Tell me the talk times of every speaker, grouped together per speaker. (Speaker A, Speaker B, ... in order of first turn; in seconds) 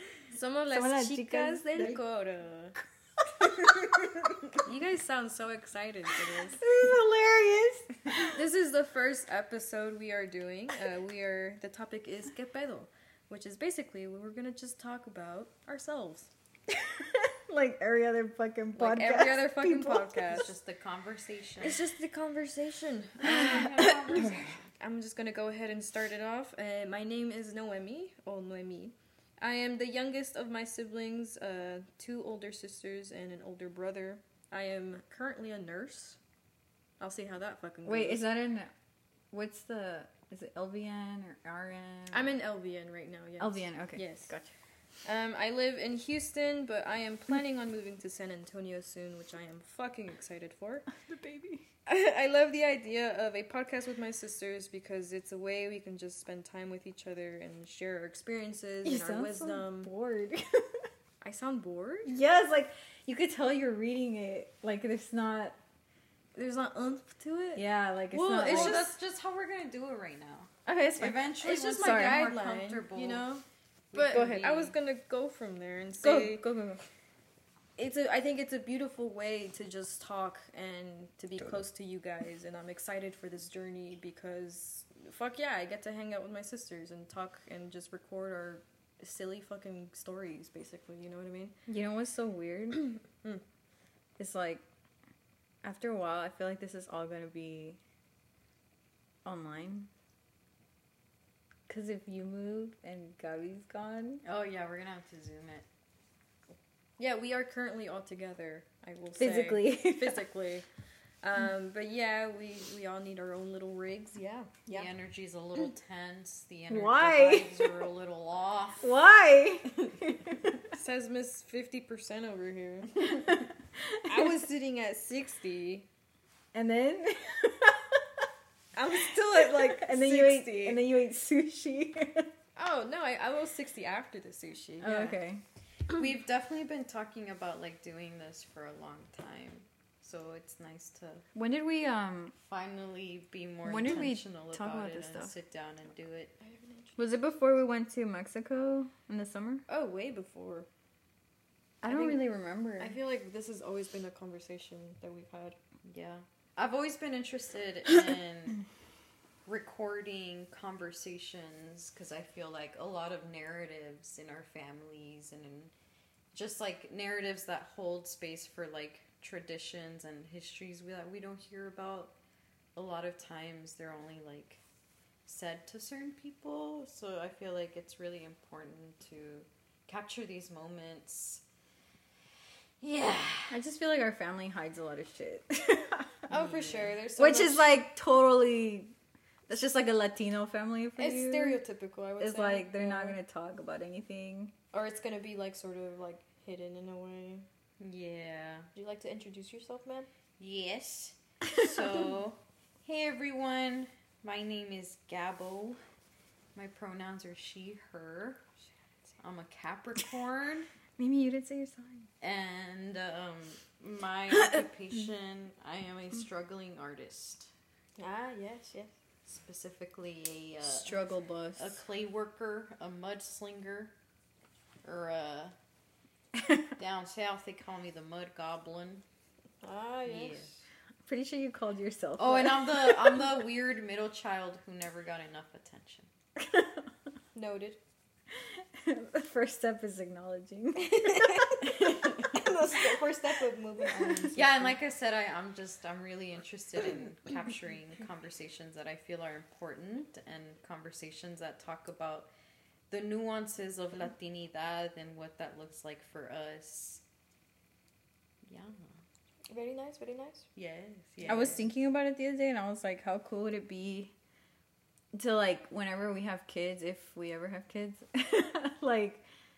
Speaker A: 0.3-2.8, 4.6-6.6, 8.3-16.3, 18.8-20.5, 21.6-24.3, 24.8-36.2, 37.0-38.2, 42.1-44.4, 45.0-50.9, 51.9-59.9, 61.2-62.1, 66.3-68.9, 71.4-76.4, 77.8-91.6, 107.0-110.7, 111.2-114.9, 120.7-123.0, 124.1-125.9, 128.8-130.8, 132.6-135.2, 146.4-147.0, 149.7-150.7, 151.9-152.3, 152.8-155.6, 186.3-187.8, 191.0-193.2, 194.7-197.5, 198.7-200.1, 218.0-218.9, 229.6-230.5, 237.3-237.8, 240.8-244.8, 259.5-260.5
Speaker B: 0.7-2.0, 3.4-4.5, 6.6-8.4, 16.7-20.4, 23.4-23.9, 37.9-38.7, 39.3-42.3, 43.4-44.5, 50.9-51.6, 58.9-60.9, 62.1-65.6, 67.5-68.9, 70.7-72.3, 74.1-74.7, 76.0-76.8, 91.7-92.9, 94.2-94.6, 95.6-97.8, 99.2-99.9, 101.7-104.2, 109.2-110.2, 116.7-117.7, 118.8-120.6, 123.1-124.4, 126.5-128.2, 129.3-132.3, 134.8-135.4, 141.3-142.3, 143.7-145.3, 147.0-149.7, 151.8-153.0, 183.5-186.3, 187.2-188.9, 189.5-191.6, 192.2-194.5, 211.0-212.1, 220.6-221.8, 226.4-226.6, 231.1-233.3, 236.4-236.9, 238.3-242.6, 243.9-244.3, 261.2-264.1, 265.1-269.2
Speaker C: 20.3-21.8, 23.2-24.7, 68.4-73.3, 73.9-74.2, 104.2-105.7, 114.7-118.9, 135.9-141.2, 142.4-146.3, 155.8-158.6, 159.5-165.7, 166.3-172.1, 172.8-174.6, 175.3-181.4, 182.8-183.6, 186.3-187.0, 197.8-198.7, 200.4-205.8, 206.6-208.4, 209.2-210.7, 212.2-217.5, 219.3-223.9, 224.8-225.6, 226.8-229.0, 230.1-230.5, 232.2-236.1, 244.3-252.3, 252.9-257.0, 258.4-259.0, 260.6-261.7